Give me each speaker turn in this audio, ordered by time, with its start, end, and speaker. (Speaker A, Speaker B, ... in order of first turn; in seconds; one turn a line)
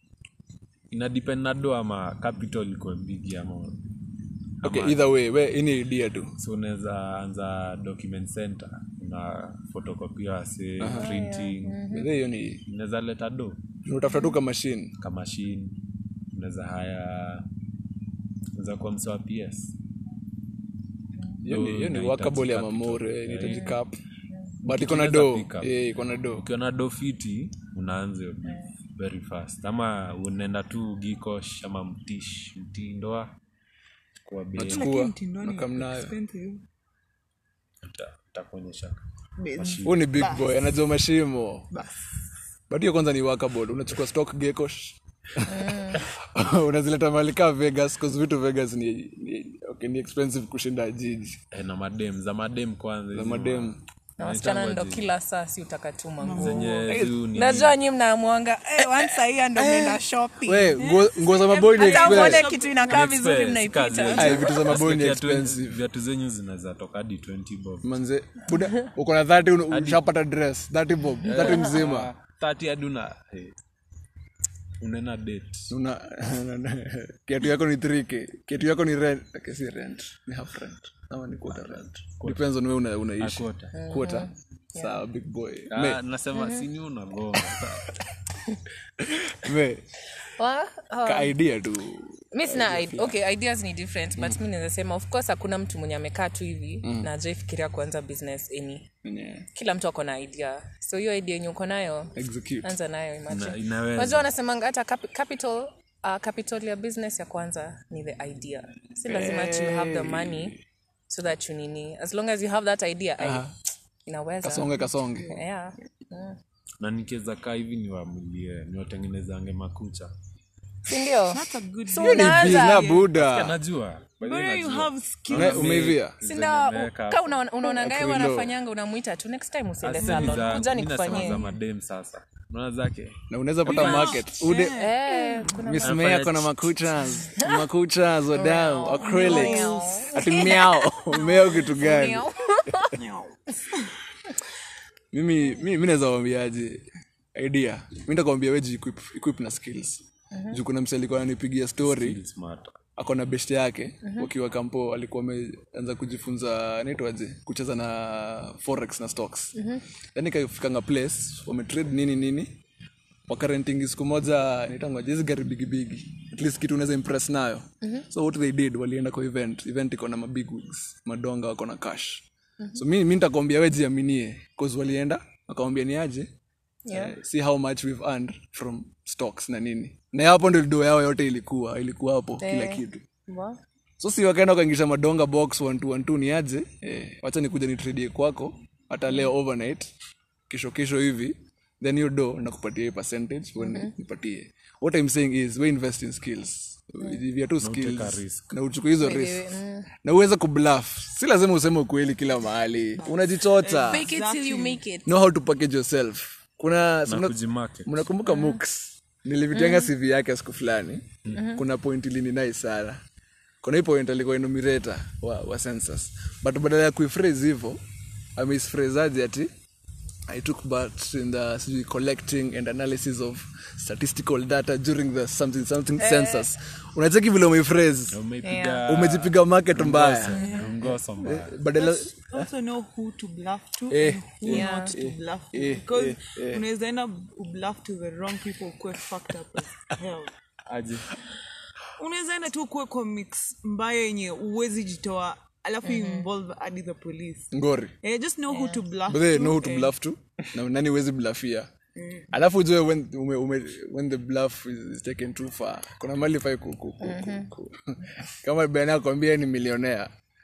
Speaker A: 0.9-3.8
Speaker A: 4.6-5.1
Speaker B: 4.6-6.3
Speaker A: 6.4-11.8
Speaker B: 10.8-11.1
Speaker C: 10.9-12.1
Speaker B: 11.9-12.6
Speaker A: 12.7-13.6
Speaker B: 13.8-14.9
Speaker A: 15.0-15.8
Speaker A: 16.3-17.4
Speaker A: 18.6-19.8
Speaker C: 21.1-21.4
Speaker B: 21.4-24.0
Speaker A: 21.4-23.7
Speaker C: 23.4-23.8
Speaker C: 24.3-24.5
Speaker B: 24.6-26.4
Speaker A: 24.7-25.7
Speaker A: 26.3-33.4
Speaker A: 34.2-34.9
Speaker B: 34.6-36.1
Speaker D: 34.6-36.6
Speaker A: 37.8-39.0
Speaker D: 39.4-40.6
Speaker A: 39.5-40.3
Speaker B: 39.8-41.7
Speaker D: 41.7-42.0
Speaker B: 42.7-51.4
Speaker C: 45.5-46.0
Speaker A: 51.5-55.1
Speaker B: 53.1-53.8
Speaker C: 54.2-56.6
Speaker D: 56.2-56.9
Speaker A: 56.3-57.8
Speaker B: 56.9-57.2
Speaker C: 57.3-60.8
Speaker B: 59.5-62.5
Speaker D: 60.8-63.1
Speaker C: 61.7-64.6
Speaker A: 62.9-67.9
Speaker B: 64.1-65.8
Speaker B: 67.8-72.1
Speaker A: 69.7-70.0
Speaker A: 71.2-73.5
Speaker A: 74.8-75.7
Speaker B: 75.7-86.0
Speaker A: 81.5-82.5
Speaker A: 83.2-83.7
Speaker C: 83.7-85.0
Speaker A: 85.7-87.9
Speaker C: 86.3-86.7
Speaker B: 89.0-89.9
Speaker C: 90.2-91.3
Speaker B: 91.0-93.2
Speaker C: 92.3-98.9
Speaker B: 96.8-97.1
Speaker B: 99.0-99.5
Speaker C: 99.5-110.5
Speaker B: 102.2-102.7
Speaker A: 103.3-104.3
Speaker B: 109.1-110.6
Speaker C: 111.1-116.4
Speaker B: 113.2-113.5
Speaker B: 114.4-115.4
Speaker D: 115.1-115.4
Speaker A: 116.8-120.1
Speaker C: 120.8-123.0
Speaker D: 121.3-123.1
Speaker B: 122.0-123.5
Speaker A: 123.1-127.4
Speaker D: 124.2-125.8
Speaker B: 125.3-126.1
Speaker C: 126.2-131.4
Speaker B: 127.6-128.5
Speaker A: 129.8-134.2
Speaker D: 130.0-131.6
Speaker B: 133.3-134.8
Speaker D: 133.7-135.6
Speaker C: 134.5-136.0
Speaker B: 135.5-142.3
Speaker A: 135.8-136.8
Speaker C: 137.1-137.7
Speaker C: 138.3-143.0
Speaker D: 138.9-140.3
Speaker D: 142.9-143.9
Speaker B: 145.1-152.2
Speaker C: 150.3-150.6
Speaker A: 151.8-152.7
Speaker B: 153.0-159.6
Speaker C: 154.0-154.3
Speaker C: 159.5-159.8
Speaker B: 160.1-162.5
Speaker B: 163.3-176.3
Speaker C: 176.8-177.2
Speaker B: 176.9-183.0
Speaker C: 182.4-183.6
Speaker B: 184.0-189.9
Speaker B: 190.5-199.5
Speaker C: 193.6-193.9
Speaker A: 197.6-198.5
Speaker C: 199.0-199.9
Speaker B: 200.0-204.1
Speaker D: 203.0-204.8
Speaker C: 203.8-205.1
Speaker B: 205.1-213.0
Speaker A: 207.1-208.1
Speaker C: 208.2-208.6
Speaker C: 209.5-209.9
Speaker A: 211.2-211.5
Speaker C: 211.3-211.6
Speaker B: 213.6-217.8
Speaker B: 218.3-219.5
Speaker B: 220.3-228.2
Speaker C: 226.0-226.5
Speaker A: 228.1-231.6
Speaker C: 228.4-228.8
Speaker B: 228.8-232.5
Speaker C: 230.3-230.7
Speaker D: 230.3-230.7
Speaker D: 231.7-240.3
Speaker B: 233.9-236.6
Speaker C: 234.4-234.9
Speaker A: 240.7-241.2
Speaker D: 242.0-249.9
Speaker C: 245.8-246.3
Speaker B: 247.5-247.9
Speaker C: 248.5-248.8
Speaker B: 249.1-251.7
Speaker D: 251.9-252.3
Speaker B: 252.3-260.1
Speaker C: 257.0-257.5